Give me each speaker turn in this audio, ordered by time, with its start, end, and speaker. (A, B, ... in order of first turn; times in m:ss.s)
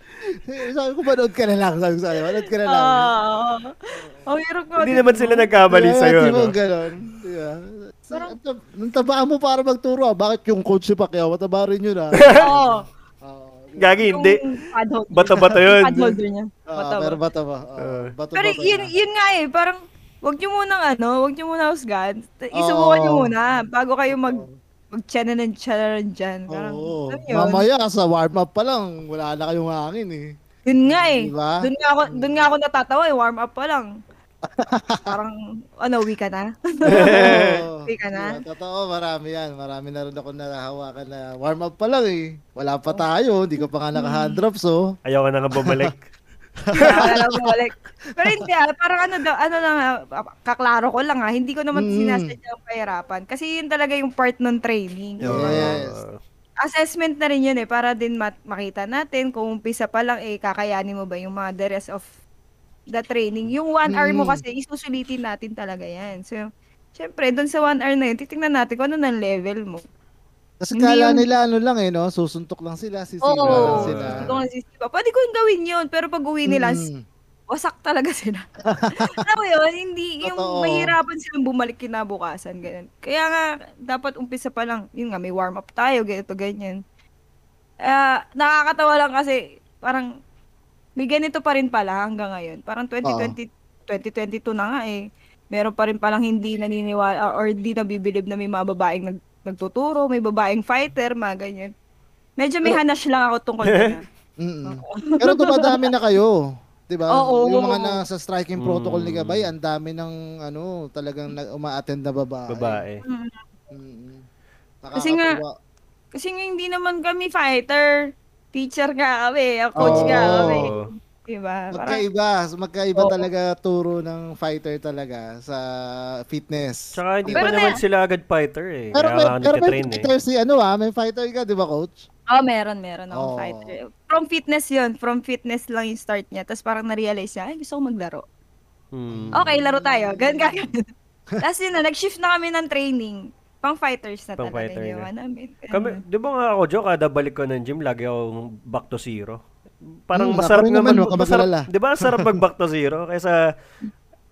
0:00.4-0:03.1 A
0:02.7-0:03.7 B
0:03.9-0:04.2 A
0:04.3-0:05.5 B
0:04.8-0:06.5 C
0:05.7-0:14.1 A
0:12.2-0:12.5 C
0:12.3-0:12.8 B
0:13.8-0:14.4 C
0:14.1-0:17.2 B
0:15.1-0:16.2 C
0:16.7-0:18.9 A
0:17.8-0:18.1 C
0:18.3-0:27.6 B
0:22.6-0:23.3 A
0:24.1-0:24.5 A
0:26.5-0:30.3 A
0:30.7-0:33.9 B
0:30.9-0:32.5 A
0:34.4-0:35.1 A
0:35.0-0:38.4 B
0:36.9-0:37.6 C
0:36.9-0:44.8 A
0:43.9-0:44.4 B
0:45.0-0:46.0 C
0:45.6-0:45.9 A
0:46.7-0:47.5 A
0:46.8-0:55.8 B
0:51.8-0:52.4 A
0:55.2-0:56.2 C
0:55.3-0:56.0 A
0:56.6-1:02.1 B
1:02.9-1:09.8 B
1:03.9-1:04.4 A
1:10.6-1:14.3 A
1:10.7-1:11.2 B
1:13.2-1:16.8 B
1:13.5-1:14.3 C
1:16.4-1:17.0 A
1:17.5-1:26.8 B
1:18.6-1:19.2 A
1:20.2-1:21.0 A
1:27.8-1:30.1 B
1:31.0-1:35.0 B
1:33.0-1:33.3 A
1:35.5-1:41.7 B
1:42.4-1:44.0 B
1:44.4-1:52.8 A
1:44.6-1:45.9 B
1:47.1-1:48.0 B
1:48.6-1:49.5 C
1:52.5-1:53.0 C
1:53.0-1:53.4 B
1:53.7-1:54.2 A
1:54.8-1:55.5 A
1:55.0-1:55.4 B
1:56.2-1:58.0 B
1:58.5-2:02.0 B
1:59.8-2:00.7 A
1:59.8-2:00.9 C
2:01.7-2:07.6 A
2:06.9-2:10.1 C
2:07.3-2:07.8 B
2:09.0-2:12.0 A
2:12.3-2:18.2 B
2:13.1-2:13.8 A
2:18.9-2:19.5 C
2:19.1-2:20.6 A
2:19.3-2:20.8 B
2:21.4-2:26.0 B
2:24.4-2:25.1 C
2:25.7-2:29.4 C
2:30.1-2:33.4 C
2:30.1-2:32.4 A